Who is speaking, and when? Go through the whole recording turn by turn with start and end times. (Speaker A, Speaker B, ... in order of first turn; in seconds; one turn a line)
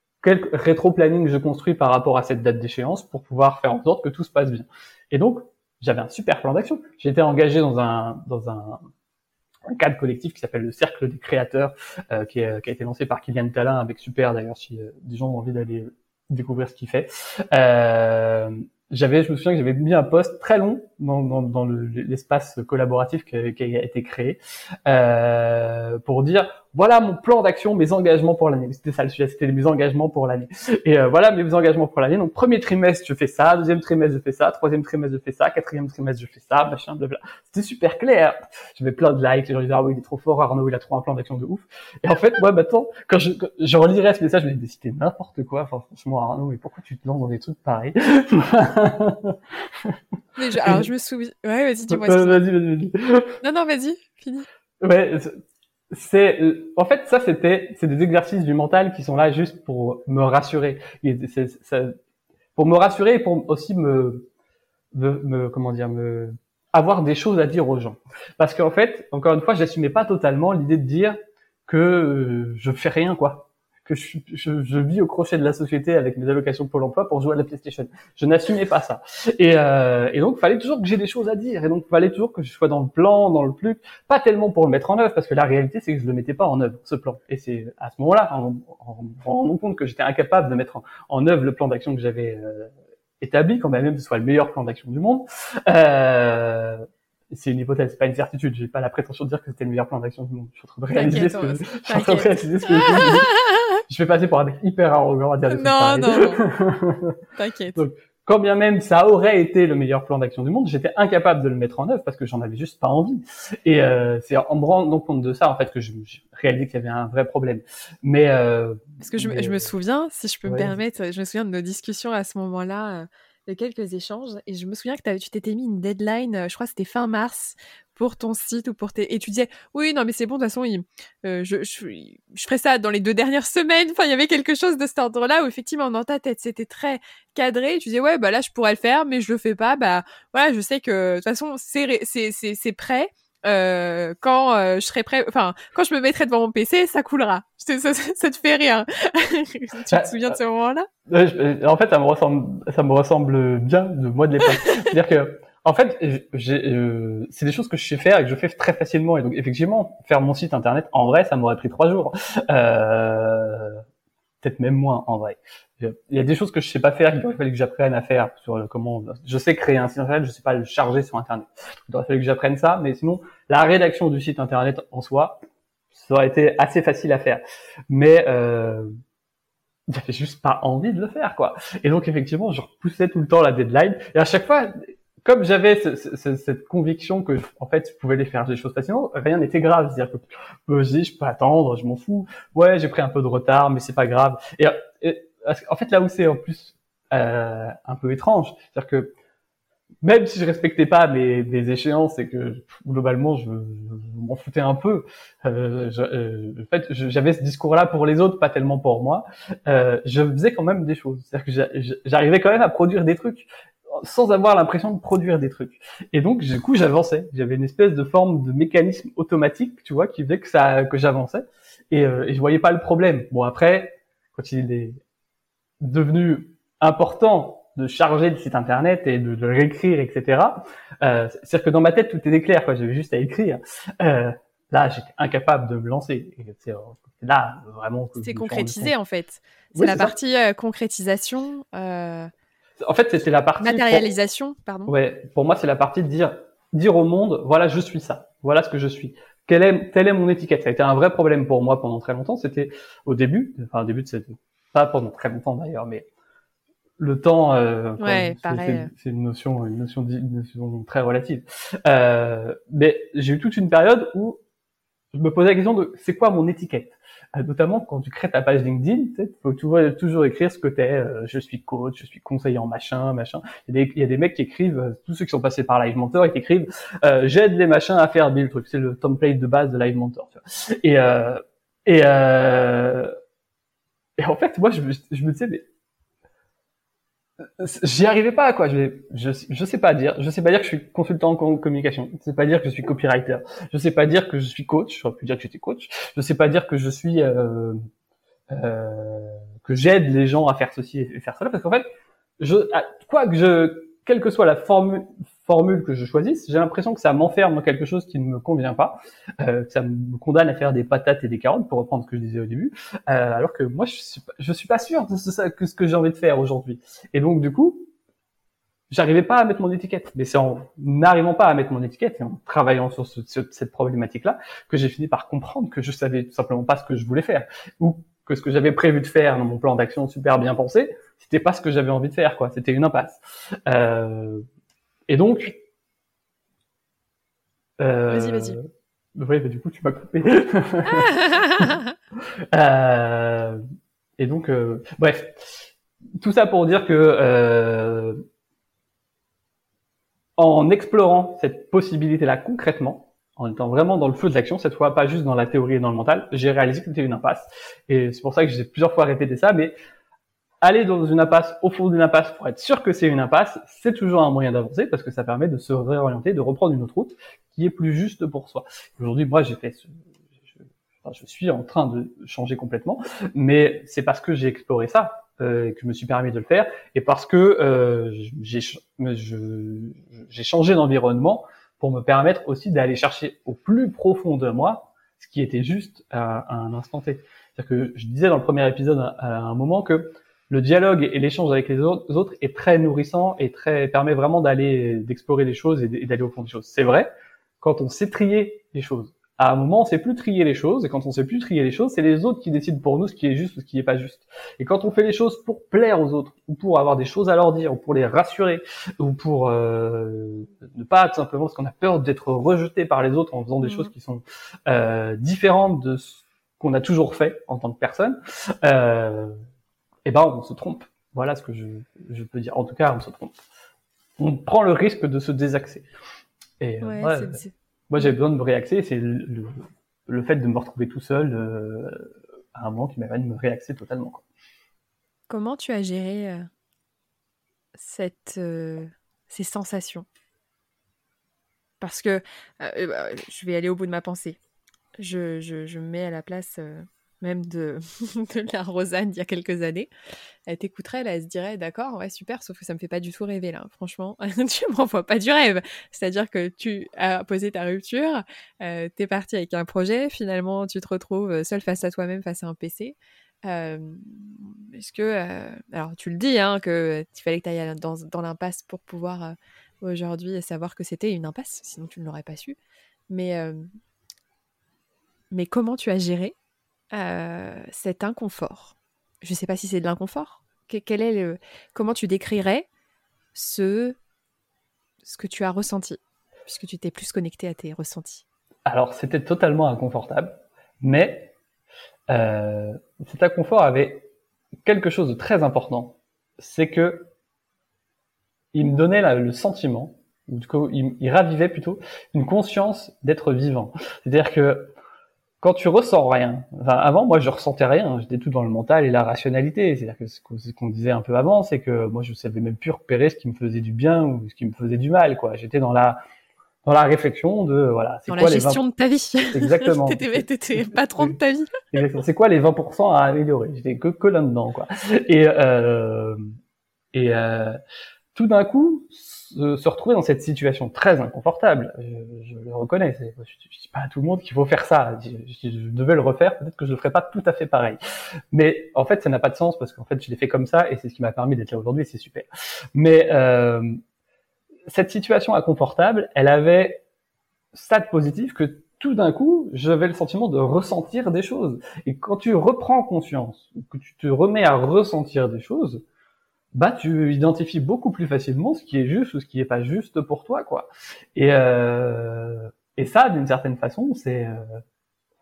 Speaker A: 0.2-8.8
Speaker A: 9.7-50.0
Speaker B: 50.4-52.5
Speaker A: 51.9-53.3
Speaker B: 53.4-54.5
Speaker A: 54.8-55.4
Speaker A: 55.9-62.0
Speaker A: 62.6-64.3
Speaker A: 64.9-71.2
Speaker A: 71.7-92.7
Speaker A: 93.2-103.3
Speaker B: 100.9-103.6
Speaker A: 103.9-107.2
Speaker B: 105.5-106.4
Speaker B: 107.3-107.8
Speaker A: 107.8-119.7
Speaker B: 119.0-150.9
Speaker A: 120.5-120.7
Speaker A: 149.9-150.3
Speaker A: 151.1-163.8
Speaker A: 164.4-175.4
Speaker A: 175.9-178.9
Speaker A: 179.9-199.1
Speaker A: 200.0-225.0
Speaker A: 225.8-238.9
Speaker B: 238.2-242.3
Speaker A: 239.7-240.2
Speaker A: 242.8-244.1
Speaker B: 243.6-244.9
Speaker A: 244.9-256.1
Speaker A: 257.0-264.4
Speaker B: 258.0-258.9
Speaker A: 265.1-283.1
Speaker A: 284.2-285.7
Speaker A: 287.4-297.8
Speaker A: 298.5-301.9
Speaker A: 302.4-317.9
Speaker A: 318.9-334.4
Speaker A: 335.1-335.6
Speaker A: 337.8-338.6
Speaker B: 338.1-338.6
Speaker A: 339.1-341.8
Speaker B: 341.2-341.7
Speaker A: 342.5-343.6
Speaker A: 344.2-348.2
Speaker A: 350.4-359.7
Speaker A: 360.6-369.9
Speaker A: 371.0-397.1
Speaker A: 397.6-419.4
Speaker A: 420.1-423.4
Speaker A: 424.2-425.9
Speaker A: 426.6-434.2
Speaker B: 426.8-427.5
Speaker B: 435.3-436.5
Speaker B: 437.8-440.1
Speaker B: 441.8-444.4
Speaker B: 445.0-449.9
Speaker B: 450.5-472.6
Speaker B: 473.1-473.6
Speaker B: 475.3-476.4
Speaker B: 476.9-482.7
Speaker B: 483.3-484.0
Speaker B: 485.0-488.2
Speaker A: 488.7-491.3
Speaker A: 492.1-494.1
Speaker A: 494.6-497.1
Speaker A: 498.5-504.7
Speaker A: 505.4-516.0
Speaker A: 516.6-518.6
Speaker B: 518.1-521.5
Speaker A: 519.3-521.1
Speaker A: 521.7-526.2
Speaker A: 526.9-527.6
Speaker A: 528.1-537.8
Speaker A: 538.3-543.8
Speaker A: 544.7-546.8
Speaker A: 547.5-555.8
Speaker A: 556.5-564.6